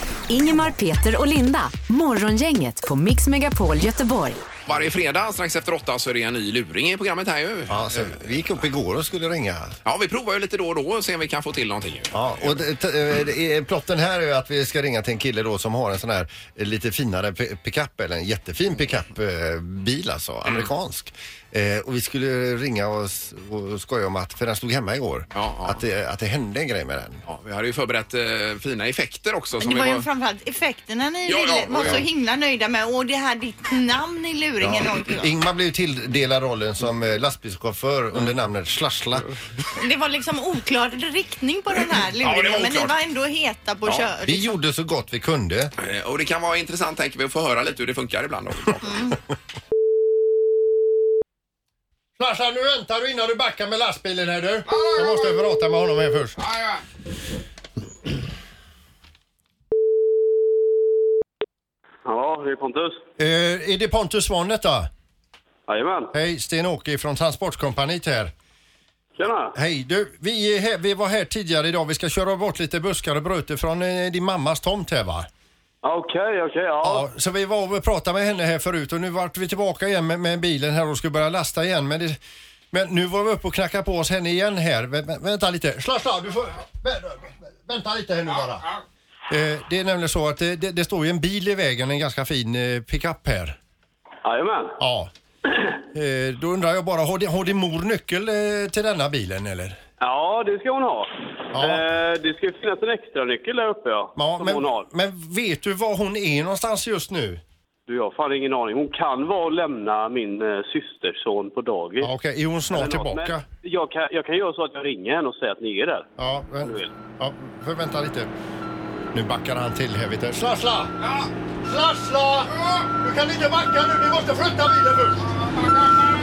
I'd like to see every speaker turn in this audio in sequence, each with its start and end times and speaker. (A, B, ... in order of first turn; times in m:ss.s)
0:00.3-0:04.4 A
0:04.6-0:08.4 B
0:07.7-0:09.8 C
0:09.8-0:12.6 B
0:12.1-0:27.2 C
0:25.3-0:25.8 B
0:27.2-0:30.0 B
0:29.6-0:35.3 D
0:31.3-0:32.0 B
0:34.6-0:39.3 C
0:39.8-0:44.6 D
0:42.2-0:42.9 B
0:44.2-0:45.7 C
0:45.8-0:49.0 B
0:48.8-0:49.1 D
0:52.2-0:56.4 C
0:54.7-0:55.5 B
0:56.4-0:56.8 B
1:02.0-1:03.0 E
1:03.2-1:04.9 C
1:05.7-1:06.1 E
1:06.1-1:08.3 C
1:09.2-1:09.5 E
1:09.5-1:15.3 C
1:15.8-1:17.0 E
1:16.8-1:22.2 C
1:22.7-1:28.7 C
1:29.3-1:33.6 C
1:34.2-1:34.8 E
1:34.8-1:35.1 C
1:35.9-1:39.8 C
1:40.0-1:44.9 E
1:41.5-1:41.8 C
1:44.2-1:47.4 C
1:47.9-1:52.1 E
1:52.0-1:53.4 C
1:52.7-1:56.1 E
1:56.2-1:58.3 C
1:56.6-1:56.9 E
1:59.1-2:00.9 C
2:01.6-2:05.2 C
2:02.6-2:02.8 B